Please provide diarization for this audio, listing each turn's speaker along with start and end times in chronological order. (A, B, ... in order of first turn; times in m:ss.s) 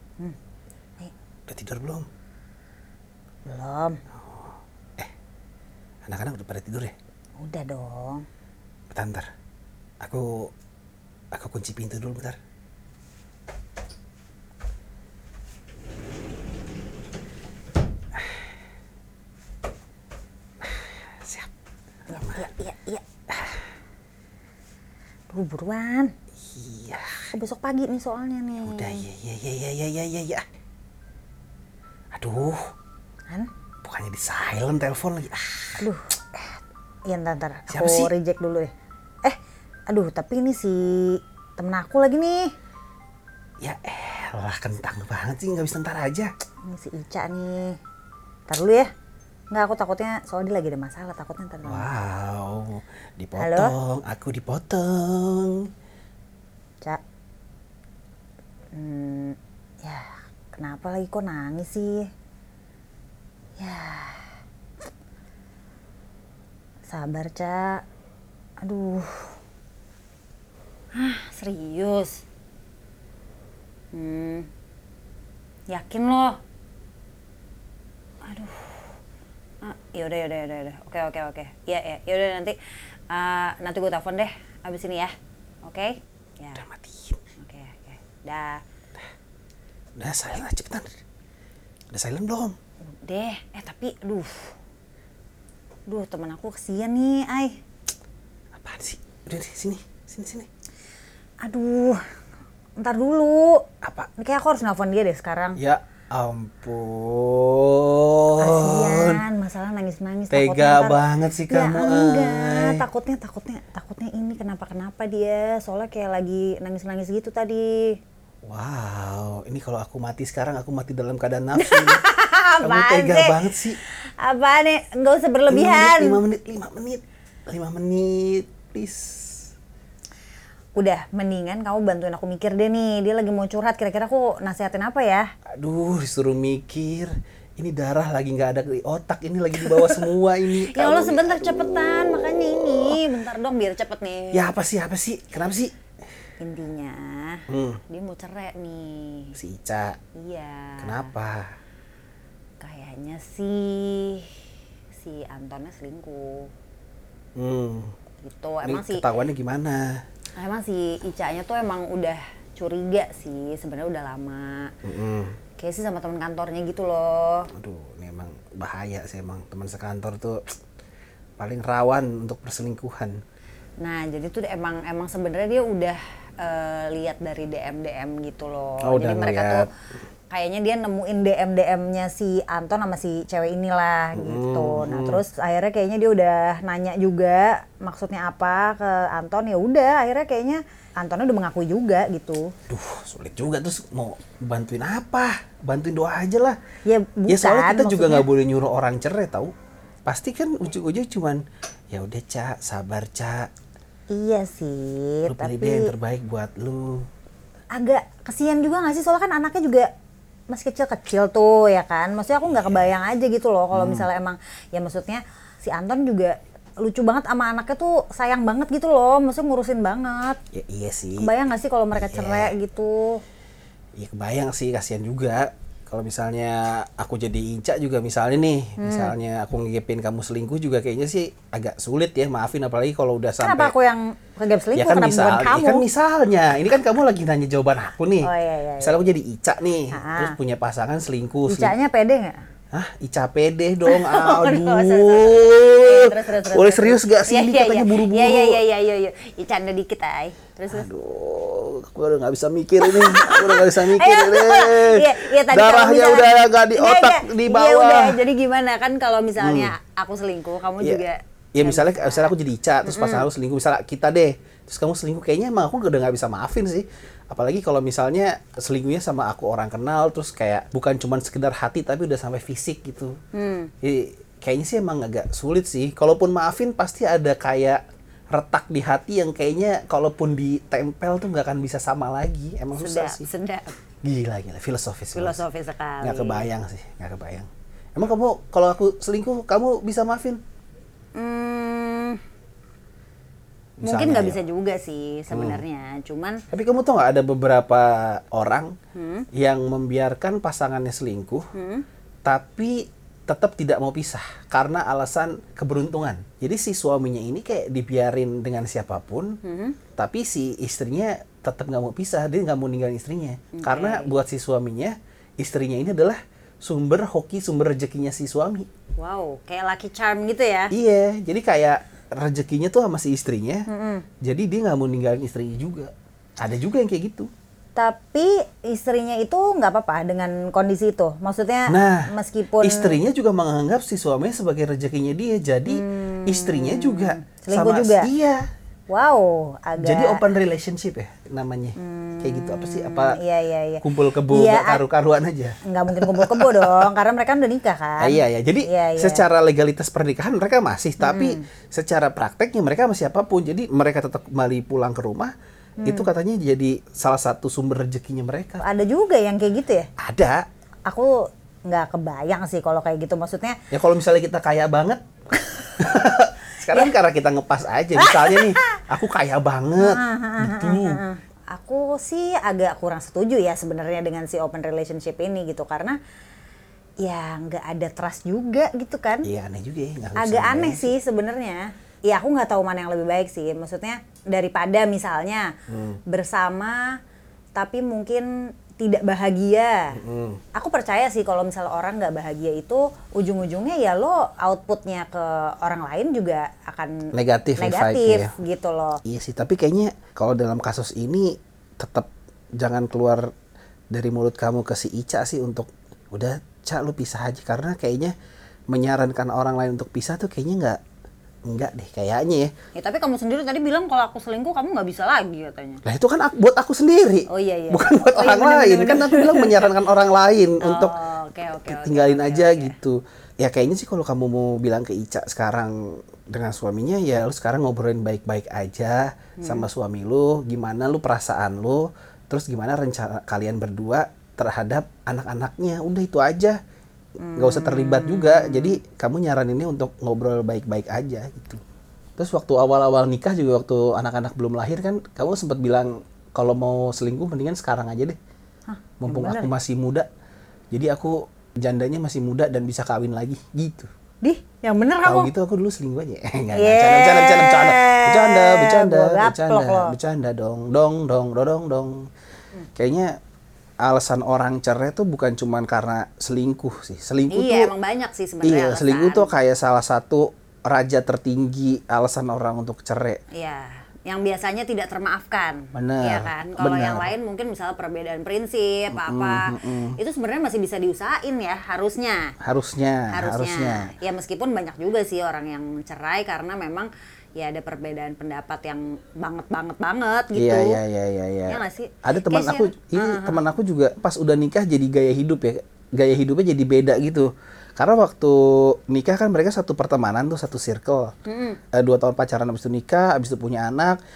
0:01.5-0:02.1 A
0:03.4-0:04.0 B
0:04.2-0:05.1 A
0:06.0-0:06.9 A
0:07.4-0:08.2 B
0:08.9-0:09.3 A
0:10.0-0:10.5 A
0:11.3-0:12.4 A
0:20.6-0:21.5 A
0:22.1-0:23.0 B
0:25.3-0:26.1 B
0:26.5-0:27.3 A
0:27.3-0:29.0 B
0:28.6-0:30.4 A
0:32.1-0:32.7 A
0:33.8-0:35.8 A
0:35.8-0:38.7 B
0:37.7-0:38.1 A
0:39.9-0:42.5 B
0:43.6-0:46.3 A
0:46.6-0:47.8 B
0:48.5-0:48.9 B
0:49.5-0:51.9 B
0:51.6-0:55.7 A
0:53.4-0:53.7 B
0:58.7-1:02.1 B
1:03.6-1:04.2 B
1:06.9-1:07.8 B
1:08.6-1:09.3 B
1:10.9-1:12.2 B
1:13.9-1:14.5 B
1:15.7-1:16.4 B
1:18.2-1:18.9 B
1:19.6-1:22.6 B
1:23.1-1:26.6 B
1:26.6-1:27.2 A
1:27.4-1:28.6 B
1:30.0-1:30.9 A
1:31.9-1:32.6 A
1:33.0-1:34.5 B
1:35.9-1:37.6 B
1:38.5-1:40.5 A
1:41.4-1:42.0 B
1:42.8-1:43.6 B
1:43.8-1:44.1 A
1:44.2-1:45.6 B
1:45.6-1:49.2 A
1:48.4-1:58.0 B
1:50.3-1:52.8 A
1:58.4-2:02.0 A
2:01.6-2:06.2 B
2:02.6-2:03.8 A
2:05.5-2:09.5 A
2:10.7-2:15.3 B
2:15.5-2:23.0 A
2:19.6-2:24.6 B
2:24.3-2:25.7 A
2:26.4-2:29.3 B
2:27.5-2:27.8 A
2:29.3-2:30.0 A
2:30.2-2:31.1 B
2:30.8-2:31.6 A
2:32.6-2:34.4 B
2:34.9-2:36.5 B
2:37.4-2:37.9 A
2:38.2-2:39.0 B
2:38.6-2:40.0 A
2:40.4-2:44.7 B
2:44.8-2:45.4 A
2:45.6-2:47.5 B
2:47.5-2:50.5 A
2:51.4-2:53.2 A
2:53.8-2:59.7 B
2:58.8-2:59.7 A
3:00.3-3:12.5 B
3:04.1-3:05.2 A
3:12.7-3:16.6 A
3:16.8-3:18.3 B
3:17.3-3:19.5 A
3:20.0-3:23.5 A
3:24.1-3:25.9 B
3:25.3-3:27.1 A
3:27.8-3:29.9 B
3:30.5-3:40.4 B
3:32.4-3:32.9 A
3:33.7-3:34.1 A
3:40.5-3:41.3 A
3:41.2-3:43.2 B
3:41.9-3:42.5 A
3:44.0-3:53.7 A
3:48.8-3:49.1 B
3:53.4-3:55.8 B
3:54.8-3:58.3 A
3:58.2-3:59.0 B
3:58.8-4:01.7 A
3:59.9-4:00.4 B
4:01.5-4:02.4 B
4:02.7-4:08.6 A
4:03.8-4:10.9 B
4:10.7-4:18.2 A
4:12.8-4:22.3 B
4:19.4-4:19.7 A
4:21.5-4:33.2 A
4:22.8-4:23.3 B
4:33.3-4:33.7 B
4:33.8-4:43.3 A
4:42.7-4:43.7 B
4:44.0-4:45.4 A
4:45.1-4:46.5 B
4:46.0-4:50.4 A
4:51.1-4:52.2 B
4:53.8-4:54.4 A
4:53.8-4:56.4 B
4:55.3-4:55.6 A
4:56.5-4:58.7 A
4:58.9-4:59.3 B
4:59.3-5:01.5 A
5:01.5-5:01.8 B
5:02.2-5:09.4 A
5:09.4-5:09.8 B
5:10.0-5:18.7 A
5:13.5-5:14.1 B
5:19.0-5:20.7 B
5:20.7-5:23.7 A
5:23.7-5:24.0 B
5:24.2-5:27.3 A
5:27.8-5:33.0 B
5:31.7-5:38.4 A
5:35.7-5:38.1 B
5:38.9-5:40.2 B
5:39.8-5:43.2 A
5:41.8-5:44.8 B
5:43.8-5:46.9 A
5:45.6-5:49.2 B
5:48.0-5:58.6 A
5:51.0-5:51.4 B
5:55.8-5:56.1 B
5:58.6-5:59.9 B
6:00.0-6:00.4 A
6:00.9-6:03.6 B
6:03.7-6:11.0 A
6:06.7-6:06.9 B
6:08.0-6:08.8 B
6:09.8-6:16.0 B
6:17.0-6:19.3 B
6:19.2-6:20.9 A
6:20.2-6:25.5 B
6:25.7-6:26.0 A
6:26.1-6:27.0 B
6:27.6-6:30.0 B
6:29.9-6:30.4 A
6:30.5-6:39.0 B
6:37.1-6:38.3 A
6:39.0-6:42.1 A
6:42.6-6:43.3 A
6:43.9-6:48.1 A
6:48.7-6:50.8 A
6:51.4-6:52.5 A
6:52.7-6:55.8 B
6:55.8-7:01.0 A
6:57.3-6:59.7 B
7:00.6-7:02.8 B
7:01.6-7:16.6 A
7:09.4-7:09.7 B
7:17.2-7:18.8 B
7:17.3-7:21.6 A
7:22.2-7:28.2 A
7:28.7-7:29.5 B
7:29.0-7:30.1 A
7:30.7-7:33.9 A
7:34.2-7:35.3 B
7:35.0-7:42.1 A
7:36.5-7:40.0 B
7:42.7-7:43.2 A
7:43.8-7:47.7 A
7:47.3-7:49.3 B
7:48.4-7:53.2 A
7:53.3-8:02.3 B
7:55.7-7:57.1 A
7:58.9-8:00.0 A
8:02.4-8:03.9 A
8:03.1-8:10.8 B
8:10.3-8:21.1 A
8:11.5-8:13.4 B
8:21.2-8:21.6 B
8:21.7-8:24.0 A